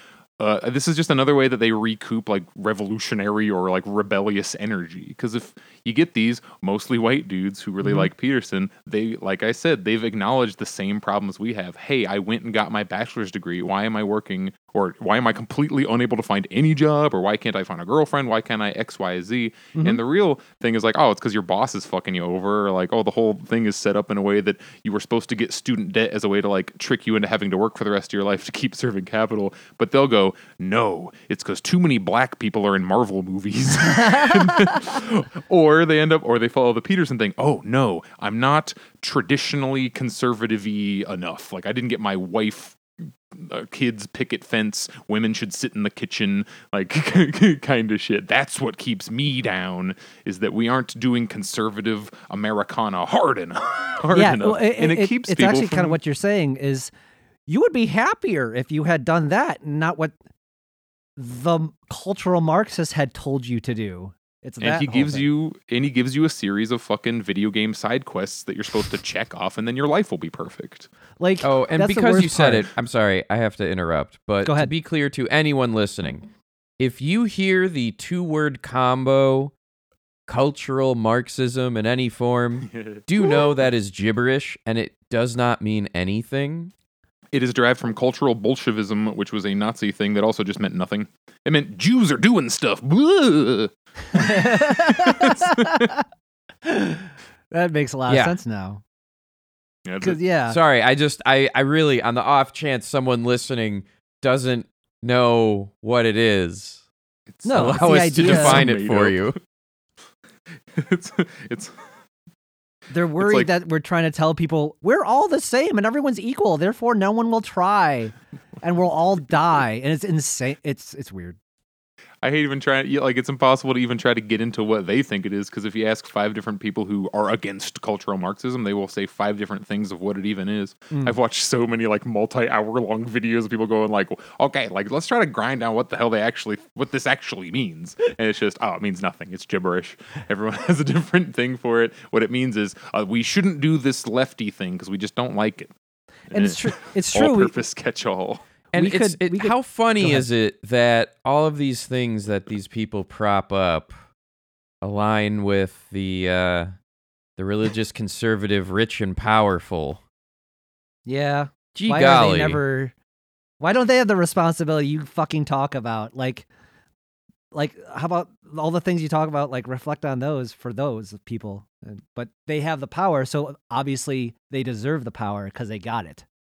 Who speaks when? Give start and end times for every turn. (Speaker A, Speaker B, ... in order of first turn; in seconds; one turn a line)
Speaker A: 0.4-42.8
Speaker B: 7.8-8.1
Speaker B: 19.7-20.0
Speaker B: 34.0-34.7
Speaker A: 43.3-56.0
Speaker B: 54.1-56.9
Speaker B: 57.5-60.1
Speaker B: 61.2-65.2
Speaker A: 64.6-70.9
Speaker B: 71.2-72.7
Speaker C: 71.4-79.5
Speaker B: 74.4-74.7
Speaker C: 80.3-86.7
Speaker A: 87.3-95.9
Speaker B: 94.1-96.0
Speaker B: 96.6-98.8
Speaker C: 98.1-98.4
Speaker A: 99.8-100.2
Speaker B: 100.0-100.6
Speaker C: 100.5-106.8
Speaker A: 107.3-109.3
Speaker B: 107.4-108.6
Speaker C: 107.5-109.4
Speaker A: 110.7-111.7
Speaker B: 112.9-121.4
Speaker A: 113.2-113.5
Speaker A: 122.2-145.7
Speaker B: 146.3-147.5
Speaker A: 146.3-148.4
Speaker C: 148.7-153.9
Speaker B: 148.7-150.3
Speaker C: 154.8-156.7
Speaker C: 157.4-160.0
Speaker B: 161.1-162.9
Speaker C: 161.7-162.6
Speaker B: 163.6-166.5
Speaker B: 167.5-176.2